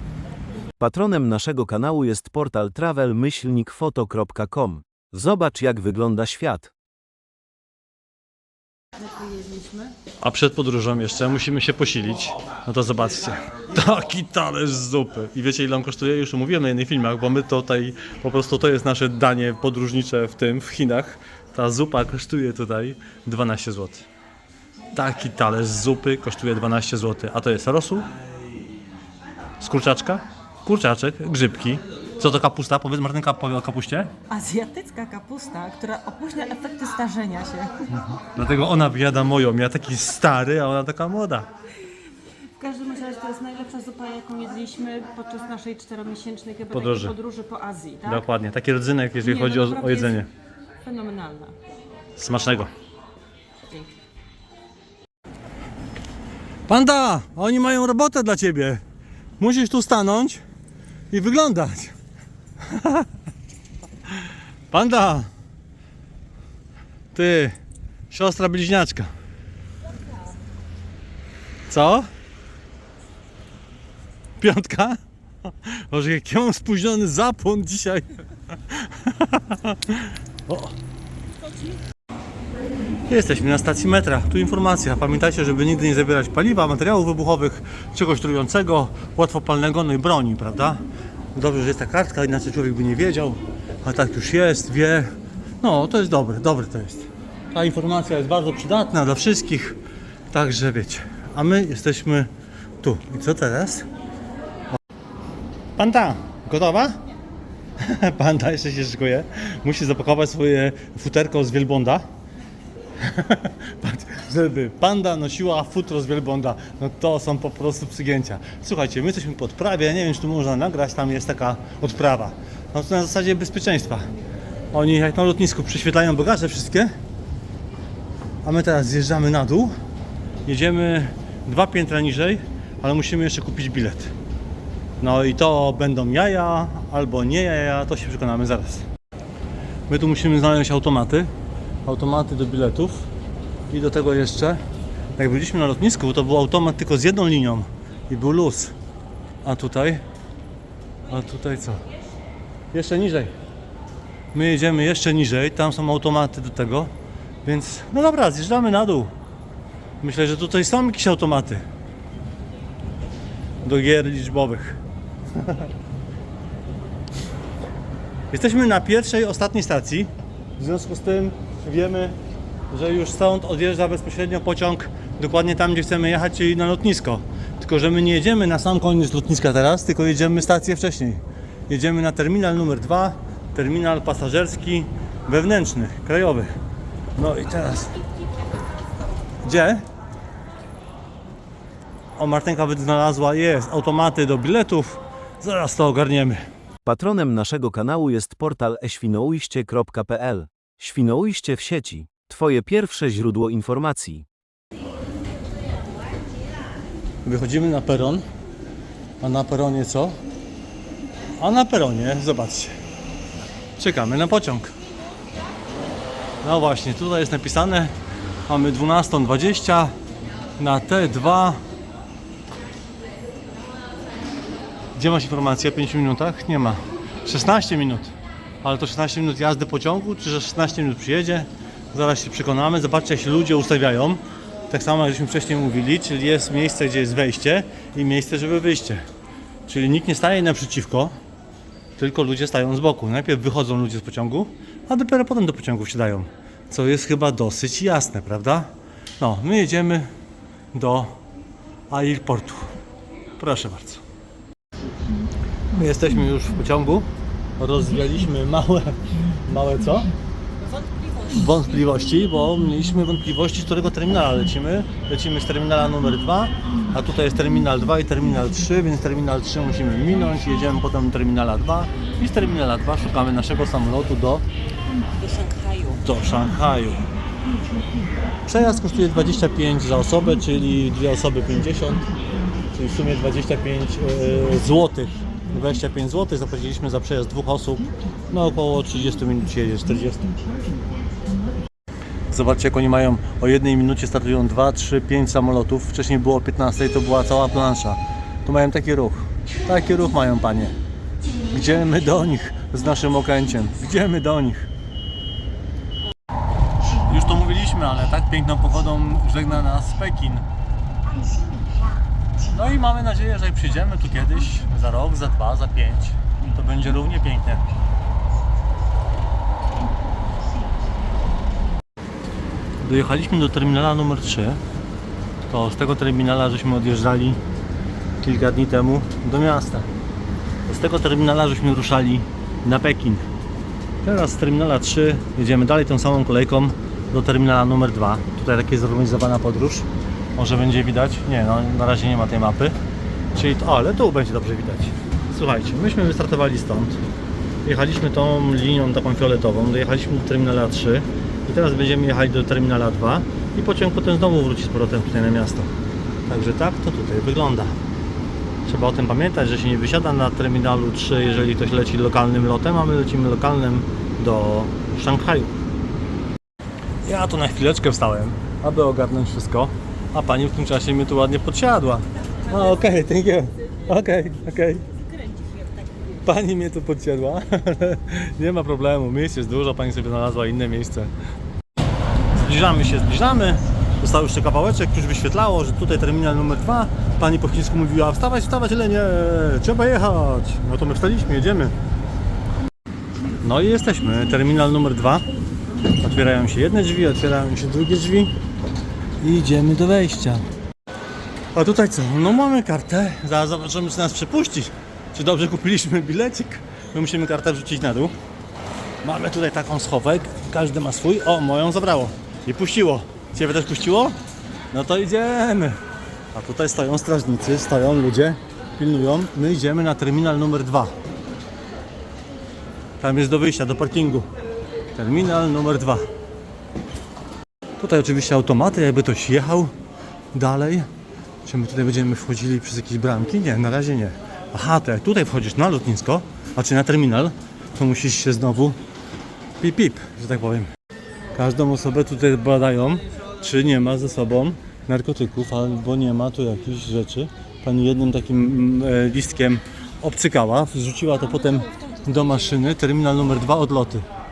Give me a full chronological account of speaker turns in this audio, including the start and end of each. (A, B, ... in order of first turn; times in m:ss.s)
0:00.8-0:06.7 A
0:09.0-0:09.9 B
0:10.2-0:24.0 C
0:24.9-0:28.1 C
0:29.6-0:34.1 C
0:34.3-0:37.7 B
0:37.9-0:41.5 C
0:42.6-0:48.2 B
0:46.7-0:47.1 C
0:48.0-0:50.3 C
0:49.2-0:50.3 B
0:50.8-0:51.5 B
0:52.2-0:52.7 C
0:56.7-0:58.8 C
0:59.4-1:00.4 C
1:01.1-1:01.9 C
1:02.6-1:03.1 C
1:04.7-1:05.3 C
1:07.1-1:07.6 C
1:08.1-1:09.1 C
1:11.7-1:12.1 C
1:14.4-1:15.0 C
1:15.6-1:18.1 C
1:18.7-1:20.7 C
1:21.5-1:21.8 B
1:23.1-1:30.8 C
1:31.3-1:39.8 C
1:40.3-1:42.3 C
1:42.8-1:43.9 C
1:45.8-1:47.0 C
1:47.8-1:52.0 C
1:53.0-2:04.0 C
2:04.7-2:06.9 C
2:08.4-2:09.7 C
2:10.4-2:14.1 C
2:15.0-2:18.8 C
2:19.9-2:21.3 C
2:21.8-2:23.0 C
2:23.7-2:24.6 C
2:25.2-2:28.7 C
2:29.4-2:30.0 C
2:31.1-2:31.8 C
2:32.7-2:33.3 C
2:34.3-2:36.9 C
2:37.4-2:39.1 C
2:40.0-2:41.6 C
2:43.6-2:44.8 C
2:45.4-2:45.6 C
2:48.3-2:52.2 C
2:52.7-3:06.5 C
3:07.2-3:07.9 C
3:09.4-3:09.8 C
3:12.2-3:16.4 C
3:16.8-3:24.2 A
3:27.2-3:28.2 C
3:29.2-3:30.2 C
3:31.4-3:32.7 C
3:33.8-3:34.7 C
3:36.4-3:37.9 C
3:38.5-3:39.9 C
3:40.6-3:41.6 C
3:45.0-3:59.0 C
3:59.7-4:01.1 C
4:02.0-4:10.1 C
4:10.7-4:11.2 C
4:11.9-4:12.7 C
4:13.4-4:14.0 C
4:15.7-4:20.1 C
4:20.6-4:21.6 B
4:21.3-4:34.4 C
4:35.2-4:36.0 B
4:36.0-4:37.0 C
4:38.4-4:42.0 C
4:42.7-4:50.3 C
4:52.3-5:00.7 C
5:01.5-5:04.7 C
5:07.1-5:10.4 C
5:12.5-5:17.6 C
5:22.8-5:24.6 C
5:25.5-5:27.4 C
5:28.2-5:29.9 C
5:30.7-5:33.2 C
5:34.0-5:42.8 C
5:43.3-5:47.0 C
5:47.6-5:55.7 C
5:56.3-5:57.7 C
5:58.6-6:05.5 C
6:07.0-6:14.8 C
6:14.9-6:16.2 B
6:16.2-6:21.1 C
6:22.4-6:31.7 C
6:33.4-6:35.2 C
6:36.0-6:38.3 C
6:39.2-6:40.4 C
6:41.5-6:48.1 C
6:49.0-6:54.2 C
6:54.7-6:55.8 C
6:56.3-7:00.9 C
7:03.0-7:04.3 C
7:04.9-7:06.0 C
7:07.8-7:09.7 C
7:10.3-7:10.9 C
7:11.4-7:18.8 C
7:19.6-7:20.7 C
7:21.3-7:34.0 C
7:31.5-7:32.6 B